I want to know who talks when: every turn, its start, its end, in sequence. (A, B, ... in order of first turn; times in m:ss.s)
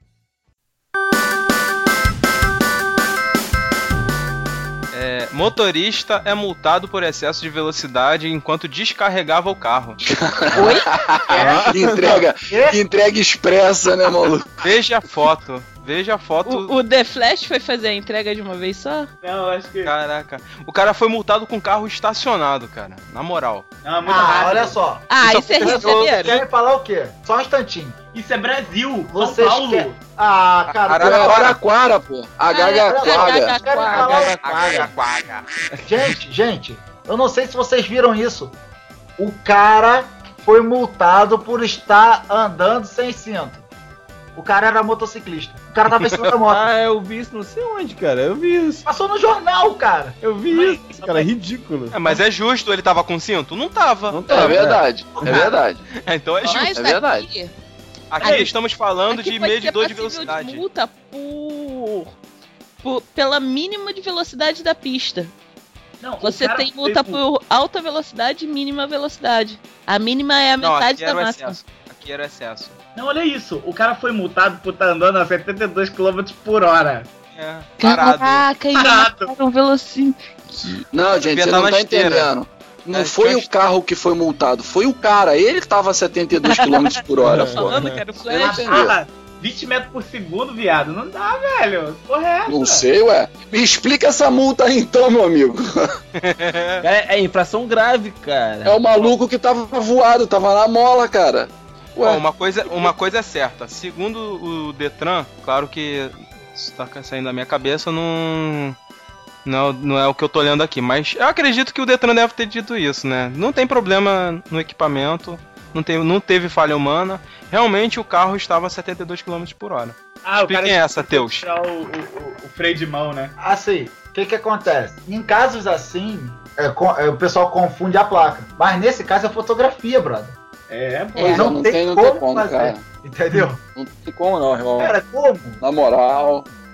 0:04.9-0:10.0 A
0:10.0-0:14.5 B
0:10.5-0:10.9 C
0:11.3-0:11.7 D
0:11.4-0:12.2 E
0:12.5-0:12.8 F
0:14.6-0:16.7 A
0:16.4-0:19.1 C
0:19.2-0:19.9 D
0:19.8-0:23.6 A
0:23.8-0:24.8 D
0:24.0-0:28.0 F
0:25.1-0:26.4 C
0:25.2-0:26.4 A
0:28.1-0:30.0 D
0:29.1-0:31.6 F
0:30.7-0:31.6 A
0:30.9-0:33.6 B
0:32.5-0:34.8 C
0:32.8-0:34.9 F
0:33.9-0:34.9 E
0:35.8-0:38.5 F
0:39.2-0:43.6 F
0:44.4-0:46.7 F
0:46.4-0:48.8 E
0:48.8-0:50.2 F
0:50.2-0:52.0 E
0:50.5-0:51.3 D
0:51.9-0:54.2 A
0:54.1-0:54.8 E
0:54.3-0:55.6 F
0:54.3-0:55.8 B
0:56.0-0:56.7 A
0:56.4-0:57.5 C
0:56.7-0:57.3 B
0:58.1-1:00.6 A
0:58.2-0:58.5 C
0:59.1-1:02.1 C
1:02.8-1:05.3 C
1:06.0-1:07.2 D
1:06.2-1:11.6 C
1:10.6-1:12.8 A
1:13.0-1:17.1 D
1:17.3-1:18.5 A
1:17.8-1:20.8 C
1:18.7-1:19.3 D
1:20.9-1:27.8 B
1:21.1-1:22.3 A
1:22.9-1:23.5 A
1:26.4-1:28.9 C
1:27.2-1:28.0 E
1:28.3-1:32.9 D
1:32.5-1:35.9 B
1:36.2-1:36.8 A
1:36.8-1:38.8 E
1:38.6-1:42.2 B
1:42.0-1:48.8 A
1:49.4-2:01.5 A
2:00.2-2:03.3 D
2:03.4-2:10.3 F
2:10.7-2:11.5 D
2:11.2-2:12.8 B
2:11.3-2:13.6 F
2:13.8-2:14.9 B
2:14.8-2:15.6 F
2:15.6-2:16.5 B